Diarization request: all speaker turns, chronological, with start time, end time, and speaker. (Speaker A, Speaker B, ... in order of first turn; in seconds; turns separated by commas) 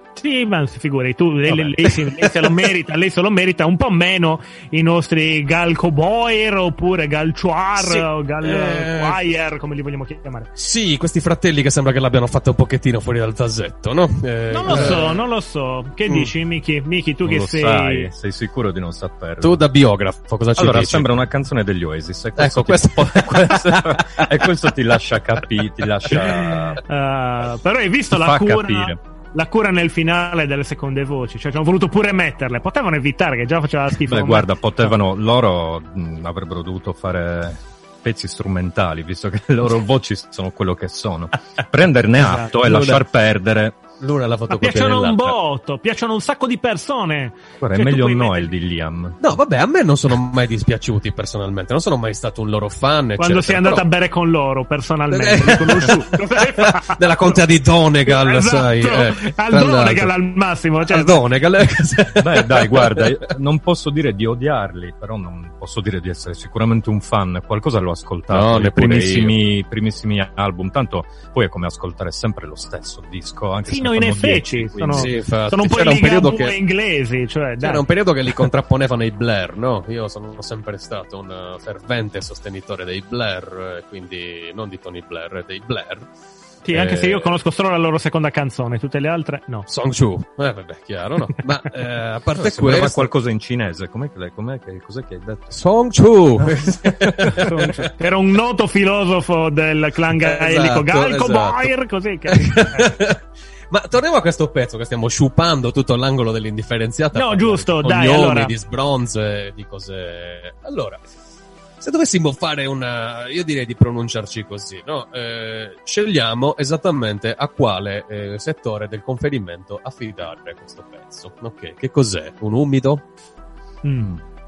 Speaker A: 0.2-10.5, Speaker B: 1.5-2.6, Speaker B: 7.8-9.2, Speaker B: 10.6-15.2, Speaker A: 14.5-18.1, Speaker B: 16.1-16.3, Speaker C: 17.2-19.6, Speaker B: 19.4-21.1, Speaker C: 20.6-26.8, Speaker B: 22.4-24.7, Speaker B: 26.1-26.4, Speaker A: 26.3-34.5, Speaker C: 28.1-29.0, Speaker C: 34.1-43.8, Speaker B: 42.2-43.0, Speaker B: 44.0-45.4, Speaker A: 44.5-48.5, Speaker C: 47.6-49.2, Speaker B: 49.2-53.9, Speaker A: 53.2-57.4, Speaker B: 55.1-60.1, Speaker A: 58.1-61.2, Speaker B: 60.9-63.2, Speaker C: 62.2-75.1, Speaker B: 68.3-69.4, Speaker A: 73.7-77.8, Speaker B: 74.9-76.6, Speaker B: 77.6-86.1, Speaker A: 86.7-89.7, Speaker B: 86.7-87.3, Speaker B: 89.7-93.1, Speaker C: 92.4-95.6, Speaker B: 95.5-97.6, Speaker C: 97.0-97.4, Speaker A: 97.4-102.9, Speaker B: 100.2-101.7, Speaker B: 102.3-111.0, Speaker A: 107.1-108.5, Speaker B: 111.8-123.1, Speaker A: 123.8-124.2